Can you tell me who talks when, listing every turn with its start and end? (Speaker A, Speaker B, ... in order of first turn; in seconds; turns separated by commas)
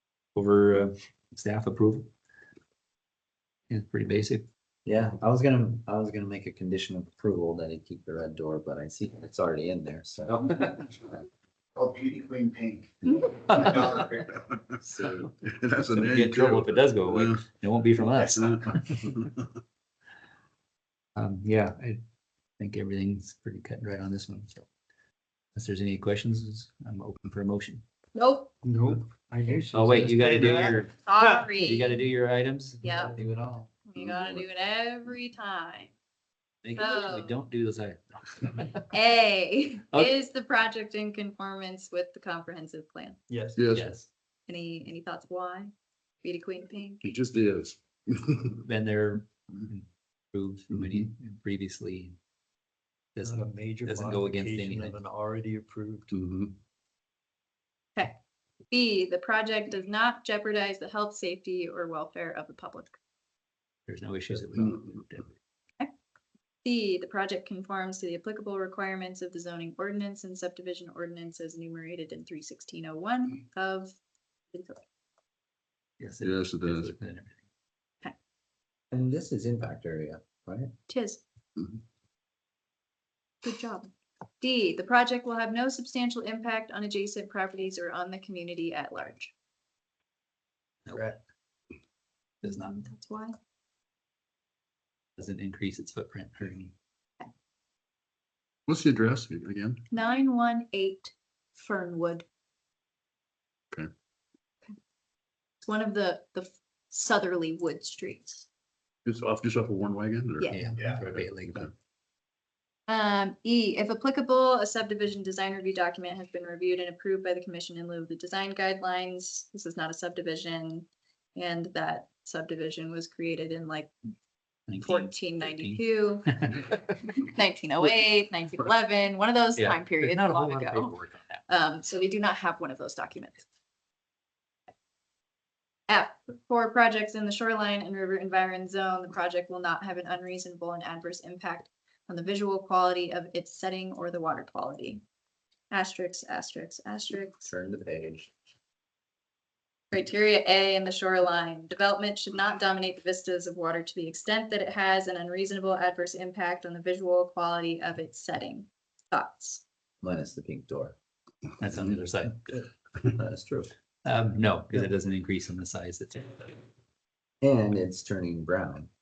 Speaker A: 0.3-2.1, Speaker A: 3.7-4.5, Speaker B: 4.8-10.7, Speaker A: 10.3-10.9, Speaker C: 11.8-12.9, Speaker A: 13.5-14.0, Speaker C: 13.5-14.3, Speaker B: 14.8-15.2, Speaker D: 15.0-17.4, Speaker A: 15.8-19.2, Speaker A: 21.2-22.0, Speaker A: 22.6-24.7, Speaker A: 25.6-27.8, Speaker E: 28.1-28.5, Speaker F: 28.6-30.7, Speaker A: 29.7-32.8, Speaker E: 30.4-32.0, Speaker E: 32.8-33.2, Speaker B: 33.1-33.7, Speaker E: 33.9-35.9, Speaker A: 36.6-38.9, Speaker E: 36.8-37.4, Speaker E: 38.9-43.2, Speaker F: 43.3-43.6, Speaker D: 43.6-43.9, Speaker A: 43.7-44.1, Speaker E: 44.5-45.7, Speaker E: 46.2-47.1, Speaker D: 47.0-48.6, Speaker A: 48.6-52.2, Speaker A: 53.2-55.0, Speaker F: 53.2-56.1, Speaker D: 56.1-56.5, Speaker E: 58.0-63.0, Speaker A: 63.9-65.3, Speaker E: 66.6-74.0, Speaker E: 74.5-74.8, Speaker A: 76.0-77.4, Speaker D: 76.2-77.0, Speaker B: 78.9-80.7, Speaker E: 80.9-81.2, Speaker E: 83.4-89.3, Speaker A: 90.9-91.2, Speaker A: 92.4-92.8, Speaker E: 92.4-93.4, Speaker A: 95.2-96.7, Speaker D: 98.7-99.8, Speaker E: 99.9-102.2, Speaker E: 105.6-108.5, Speaker D: 109.1-110.5, Speaker E: 110.4-110.7, Speaker A: 110.5-111.7, Speaker E: 112.9-123.9, Speaker A: 124.7-126.8, Speaker E: 124.8-131.0, Speaker A: 129.6-131.4, Speaker E: 131.5-133.4, Speaker E: 135.9-145.0, Speaker E: 145.7-147.5, Speaker B: 147.4-148.3, Speaker E: 149.9-159.6, Speaker B: 160.0-160.9, Speaker A: 161.6-162.4, Speaker B: 163.1-163.7, Speaker A: 164.1-166.5, Speaker B: 167.4-168.9